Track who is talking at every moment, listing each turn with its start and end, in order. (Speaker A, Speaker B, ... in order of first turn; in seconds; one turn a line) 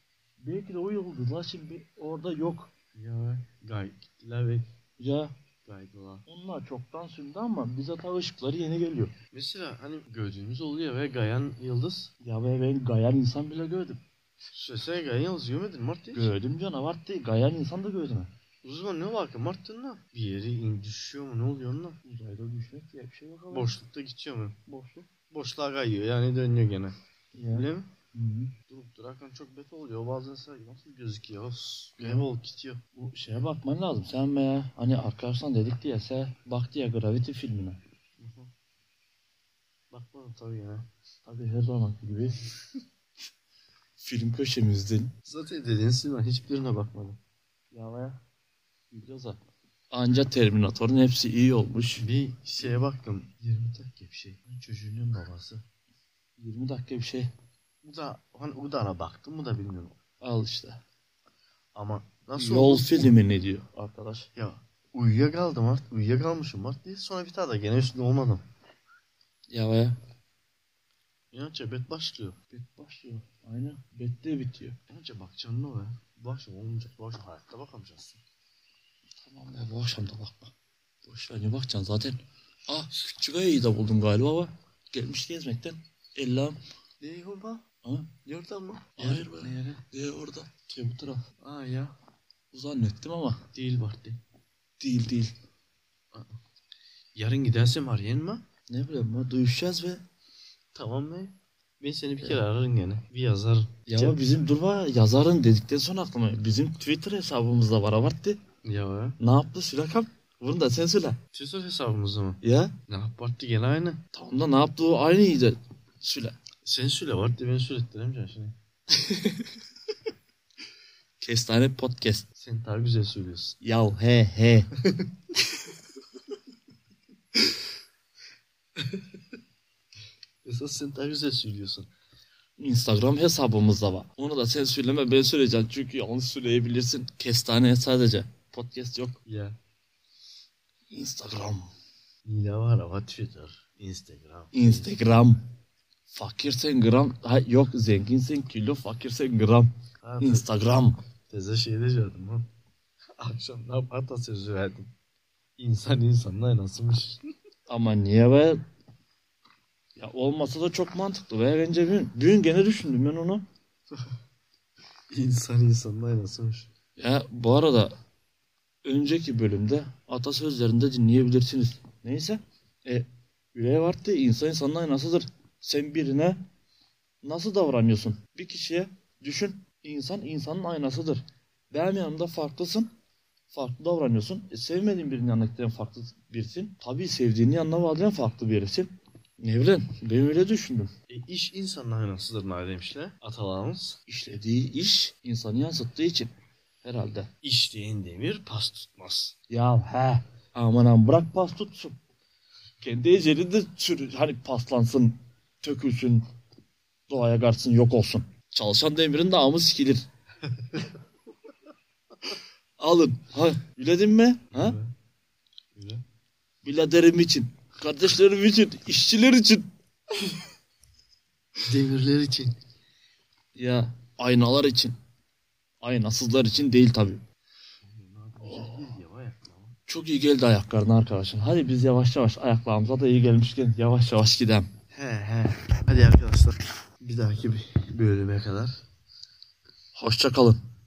Speaker A: 0.4-2.7
Speaker B: 2.9-4.7
Speaker A: 5.0-5.3
Speaker B: 5.7-6.2
Speaker A: 6.2-9.1
Speaker B: 9.3-12.1
Speaker A: 12.2-14.0
Speaker B: 14.5-16.3
Speaker A: 16.1-18.3
Speaker B: 18.6-22.0
Speaker A: 22.0-23.7
Speaker B: 23.5-26.9
Speaker A: 24.7-25.1
Speaker A: 27.3-28.5
Speaker B: 27.5-27.9
Speaker B: 28.7-32.8
Speaker A: 32.0-32.3
Speaker A: 33.0-37.8
Speaker B: 38.2-38.5
Speaker B: 39.9-40.9
Speaker A: 41.2-42.4
Speaker A: 44.0-45.1
Speaker B: 45.2-47.2
Speaker A: 47.7-48.2
Speaker A: 48.9-49.4
Speaker A: 49.9-52.0
Speaker B: 52.0-55.6
Speaker A: 56.4-57.3
Speaker B: 57.8-60.0
Speaker A: 60.2-60.8
Speaker B: 61.7-63.1
Speaker A: 62.4-64.3
Speaker B: 64.3-68.4
Speaker A: 69.5-69.9
Speaker B: 71.3-72.4
Speaker A: 72.5-74.8
Speaker B: 74.9-78.2
Speaker A: 79.2-80.5
Speaker A: 81.0-86.6
Speaker B: 87.0-87.6
Speaker A: 87.8-88.1
Speaker B: 88.2-89.6
Speaker A: 89.0-91.2
Speaker B: 91.4-91.9
Speaker A: 92.5-93.4
Speaker B: 93.5-94.2
Speaker A: 94.8-95.3
Speaker B: 97.1-98.4
Speaker A: 98.7-100.0
Speaker B: 100.7-104.2
Speaker A: 103.9-108.4
Speaker B: 108.6-109.2
Speaker A: 109.2-111.2
Speaker B: 111.3-114.0
Speaker A: 112.4-112.7
Speaker A: 114.1-116.3
Speaker B: 116.6-118.5
Speaker A: 119.0-119.4
Speaker A: 121.2-122.3
Speaker B: 122.4-123.6
Speaker A: 123.6-124.7
Speaker B: 124.8-125.1
Speaker B: 128.8-129.0
Speaker B: 130.4-131.9
Speaker A: 132.6-139.2
Speaker B: 139.2-139.6
Speaker A: 140.9-141.7
Speaker B: 142.2-144.9
Speaker A: 144.5-145.4
Speaker A: 146.1-151.0
Speaker B: 150.0-150.5
Speaker B: 151.3-152.5
Speaker B: 153.2-154.9
Speaker B: 155.6-157.2
Speaker A: 157.7-158.6
Speaker A: 159.9-163.4
Speaker B: 165.1-166.7
Speaker A: 167.0-167.9
Speaker A: 168.8-176.4
Speaker A: 177.2-182.9
Speaker A: 183.5-190.9
Speaker B: 191.1-194.0
Speaker A: 194.1-196.3
Speaker A: 196.8-197.3
Speaker B: 197.4-199.3
Speaker A: 199.5-201.9
Speaker A: 202.8-206.2
Speaker A: 207.1-210.0
Speaker A: 212.8-214.8
Speaker B: 214.5-214.9
Speaker B: 215.7-216.0
Speaker A: 216.6-219.7
Speaker B: 221.6-222.5
Speaker A: 223.5-224.9
Speaker A: 225.8-227.2
Speaker B: 227.8-229.8
Speaker A: 228.4-228.9
Speaker A: 229.9-234.7
Speaker B: 234.9-238.7
Speaker A: 239.9-240.6